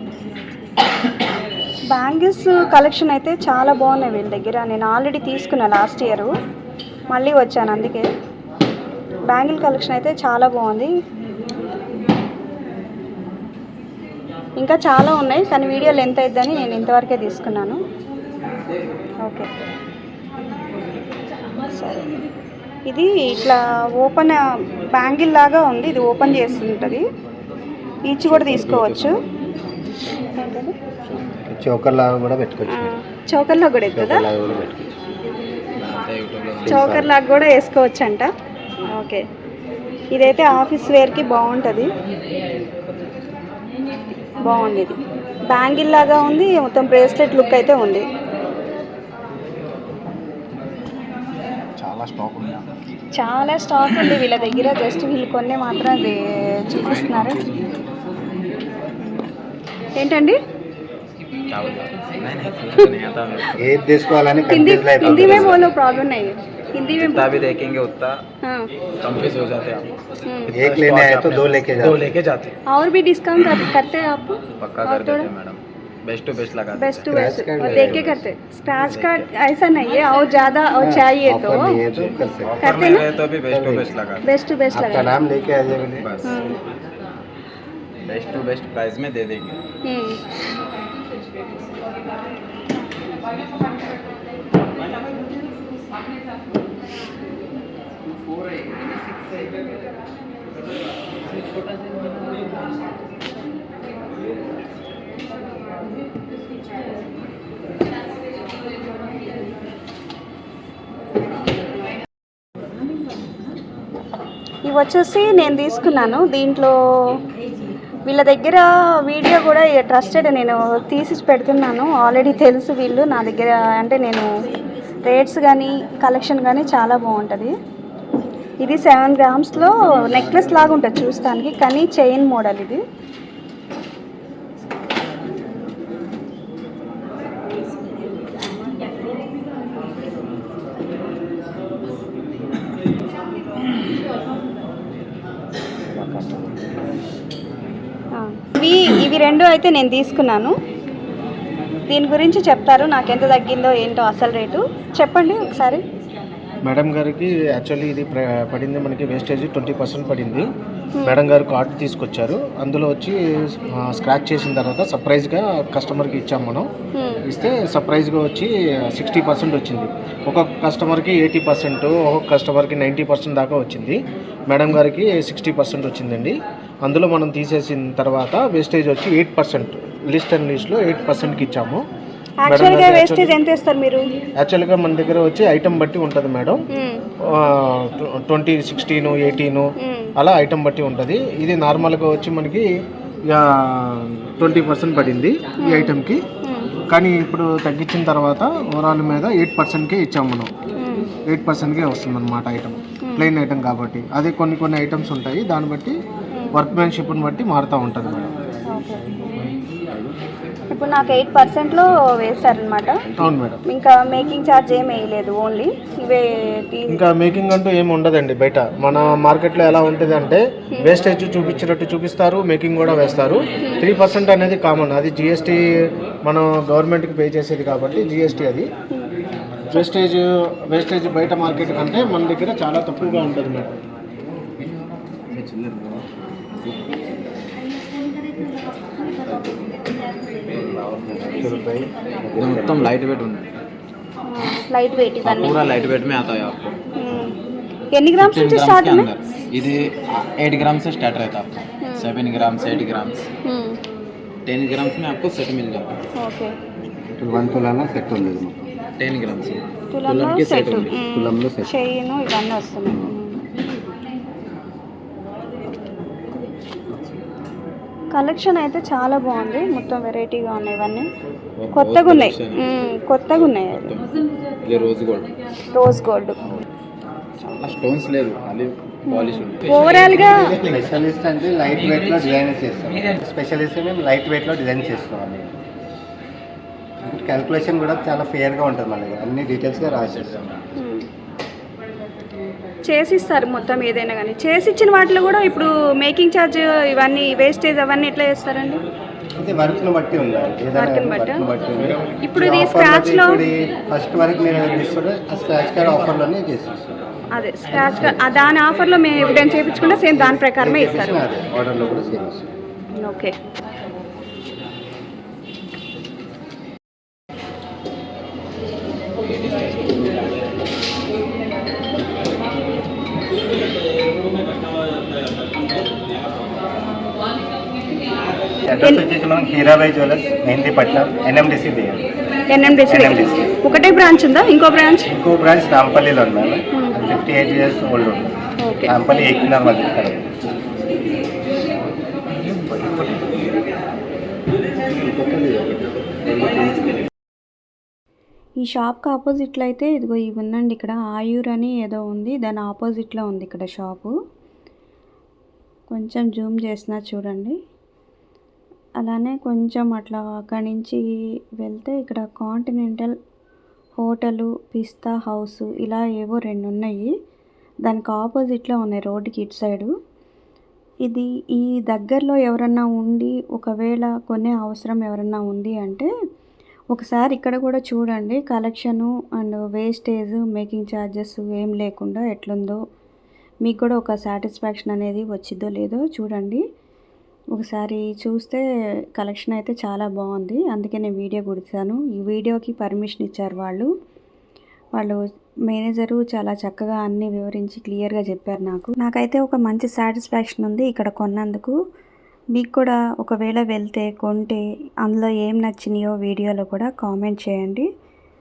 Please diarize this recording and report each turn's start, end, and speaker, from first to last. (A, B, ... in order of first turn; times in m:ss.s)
0:01.9-0:06.3 A
0:07.1-0:08.1 A
0:09.3-0:10.9 A
0:14.6-0:17.8 A
0:21.7-0:22.0 A
0:22.9-0:27.0 A
0:28.1-0:29.1 A
0:28.2-0:29.2 B
0:30.4-0:30.7 A
0:31.0-0:31.4 B
0:31.5-0:33.0 C
0:32.7-0:34.3 A
0:33.9-0:35.0 C
0:35.8-0:37.0 B
0:36.6-0:37.2 C
0:36.7-0:38.3 A
0:39.0-0:39.2 A
0:40.1-0:41.9 A
0:44.4-0:45.0 A
0:45.5-0:48.1 A
0:51.8-0:52.7 B
0:53.2-0:57.4 A
0:56.8-0:58.1 B
1:00.0-1:00.4 A
1:01.5-1:03.6 B
1:03.6-1:05.7 C
1:04.5-1:07.3 A
1:05.0-1:05.7 B
1:06.9-1:08.2 B
1:09.0-1:12.6 B
1:10.2-1:10.5 A
1:10.5-1:12.1 C
1:12.7-1:15.3 A
1:14.6-1:17.1 B
1:16.8-1:21.8 A
1:17.1-1:18.2 C
1:17.7-1:18.2 B
1:18.8-1:19.3 B
1:20.8-1:22.7 C
1:22.4-1:24.2 B
1:22.6-1:23.1 A
1:23.5-1:23.9 C
1:24.2-1:25.1 A
1:24.7-1:26.1 C
1:26.0-1:26.5 B
1:26.2-1:26.6 A
1:28.0-1:29.6 B
1:29.9-1:30.2 A
1:54.7-1:56.7 A
1:58.1-2:04.3 A
2:05.0-2:07.5 A
2:08.6-2:12.8 A
2:26.0-2:26.4 B
2:28.2-2:30.5 A
2:31.9-2:35.8 A
2:36.6-2:40.5 D
2:41.0-2:46.7 D
2:47.3-2:54.0 D
2:54.5-3:01.8 D
3:02.4-3:04.0 A
3:02.5-3:03.4 D
3:04.4-3:06.6 D
3:06.7-3:07.0 A
3:07.3-3:12.6 D
3:09.8-3:10.1 A
3:13.3-3:16.2 D
3:15.6-3:15.9 A
3:16.4-3:16.7 A
3:16.9-3:20.5 D
3:20.8-3:21.1 A
3:21.3-3:25.9 D
3:26.5-3:28.3 D
3:28.7-3:29.0 A
3:30.7-3:33.0 A
3:33.2-3:33.6 D
3:33.7-3:37.0 A
3:36.9-3:45.6 D
3:46.2-3:48.7 D
3:49.7-3:53.7 D
3:55.3-3:56.0 B
3:56.6-3:56.9 B
3:59.2-4:01.6 B
4:01.1-4:02.9 C
4:02.3-4:03.5 B
4:04.3-4:05.7 A
4:05.2-4:06.8 B
4:07.0-4:07.3 A
4:07.9-4:09.1 A
4:08.2-4:13.3 B
4:11.8-4:12.1 A
4:13.4-4:13.8 A
4:14.5-4:16.0 B
4:16.2-4:16.5 A
4:17.1-4:18.7 C
4:19.0-4:21.0 B
4:19.9-4:23.4 A
4:21.0-4:21.8 C
4:28.1-4:31.1 A
4:31.6-4:34.1 B
4:31.7-4:33.9 A
4:34.6-4:35.3 B
4:35.7-4:36.4 A
4:37.6-4:40.9 B
4:39.1-4:40.5 A
4:40.6-4:45.5 C
4:47.0-4:50.4 C
4:49.7-4:50.8 B
4:50.8-4:51.1 A
4:52.9-4:58.8 A
4:59.4-5:06.9 C
5:00.7-5:01.4 A
5:02.2-5:03.4 A
5:07.4-5:11.2 A
5:07.8-5:08.4 C
5:10.0-5:12.5 C
5:13.0-5:13.3 A
5:19.2-5:20.5 B
5:28.6-5:32.0 C
5:32.5-5:35.1 A
5:32.9-5:33.6 C
5:35.1-5:38.3 C
5:36.7-5:37.1 A
5:38.6-5:39.0 A
5:38.8-5:40.3 C
5:42.5-5:43.2 B
5:44.9-5:46.9 C
5:48.6-5:54.1 A
5:55.9-5:57.6 A
5:59.0-6:01.0 A
6:01.6-6:03.1 A
6:04.0-6:07.1 A
6:07.9-6:09.9 A
6:11.1-6:16.1 A
6:16.9-6:22.8 A
6:23.6-6:26.6 A
6:27.6-6:28.6 A
6:29.2-6:33.9 A
6:35.7-6:41.7 A
6:42.6-6:47.8 A